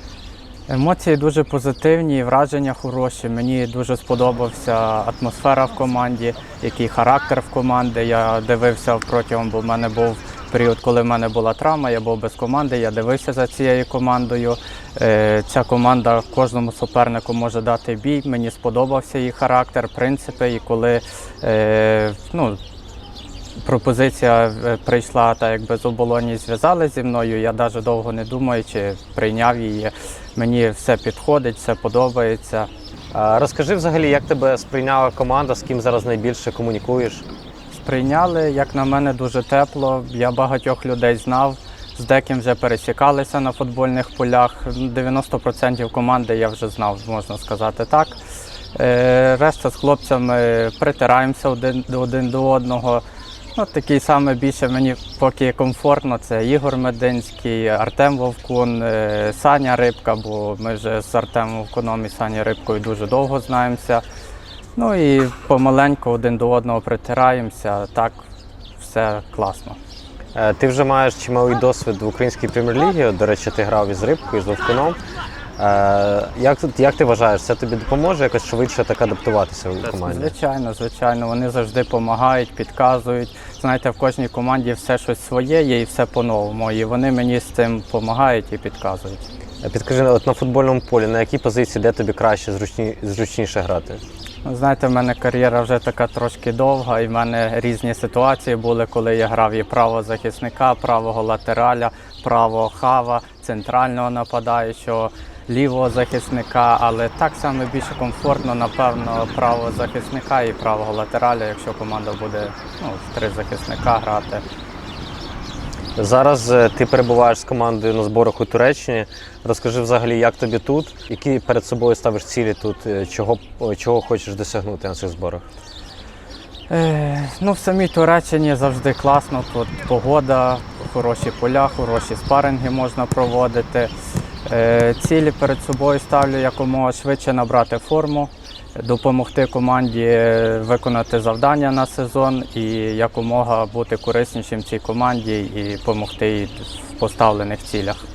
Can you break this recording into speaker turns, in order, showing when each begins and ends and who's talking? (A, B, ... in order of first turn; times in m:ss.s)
0:00.7-0:22.6 A
0:23.6-0:32.7 A
0:33.1-0:37.2 B
0:37.7-0:48.2 A
0:48.8-0:53.0 A
0:53.6-1:04.0 A
1:04.8-1:08.2 A
1:08.8-1:09.8 A
1:10.4-1:15.0 B
1:15.6-1:20.3 B
1:19.9-1:29.2 A
1:29.6-1:34.0 B
1:34.4-1:54.4 A
1:56.0-2:05.4 B
2:06.7-2:13.9 A
2:14.5-2:28.0 A